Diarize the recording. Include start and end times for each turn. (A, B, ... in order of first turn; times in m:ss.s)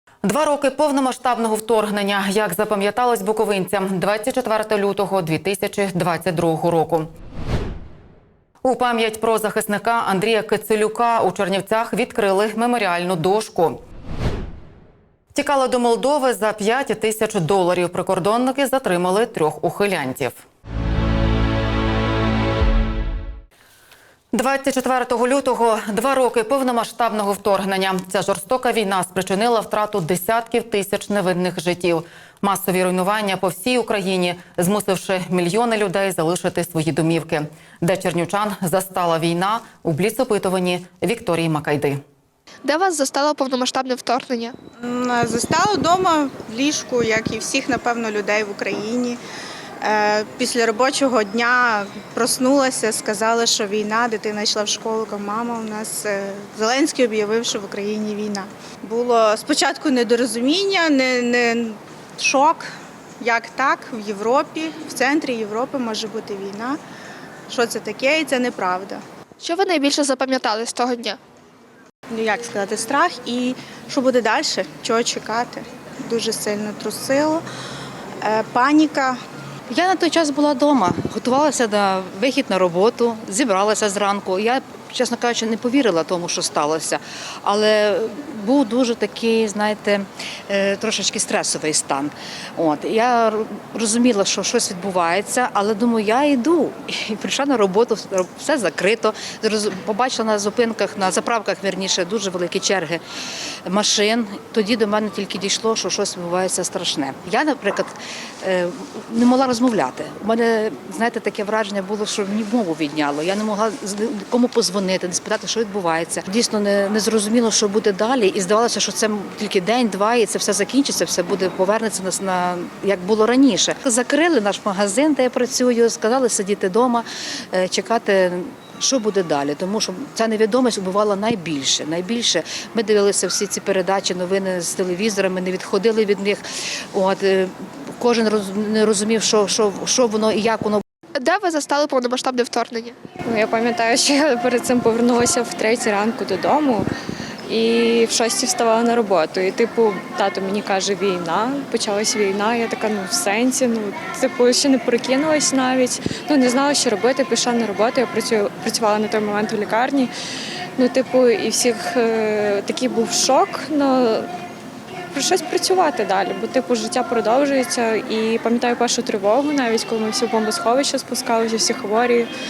0:00.2-0:07.1 A
0:08.6-0:13.8 A
0:15.3-0:20.4 A
0:24.3-0:42.0 A
0:42.6-0:44.5 B
0:44.9-0:49.2 C
0:49.8-1:02.7 C
1:03.2-1:06.8 C
1:07.5-1:09.0 C
1:09.4-1:11.2 B
1:12.2-1:17.4 C
1:18.2-1:19.2 C
1:19.7-1:43.0 D
1:43.6-2:20.8 D
2:21.2-2:22.9 B
2:23.2-2:26.9 E
2:27.5-2:40.1 E
2:40.8-2:44.3 E
2:45.1-2:52.3 E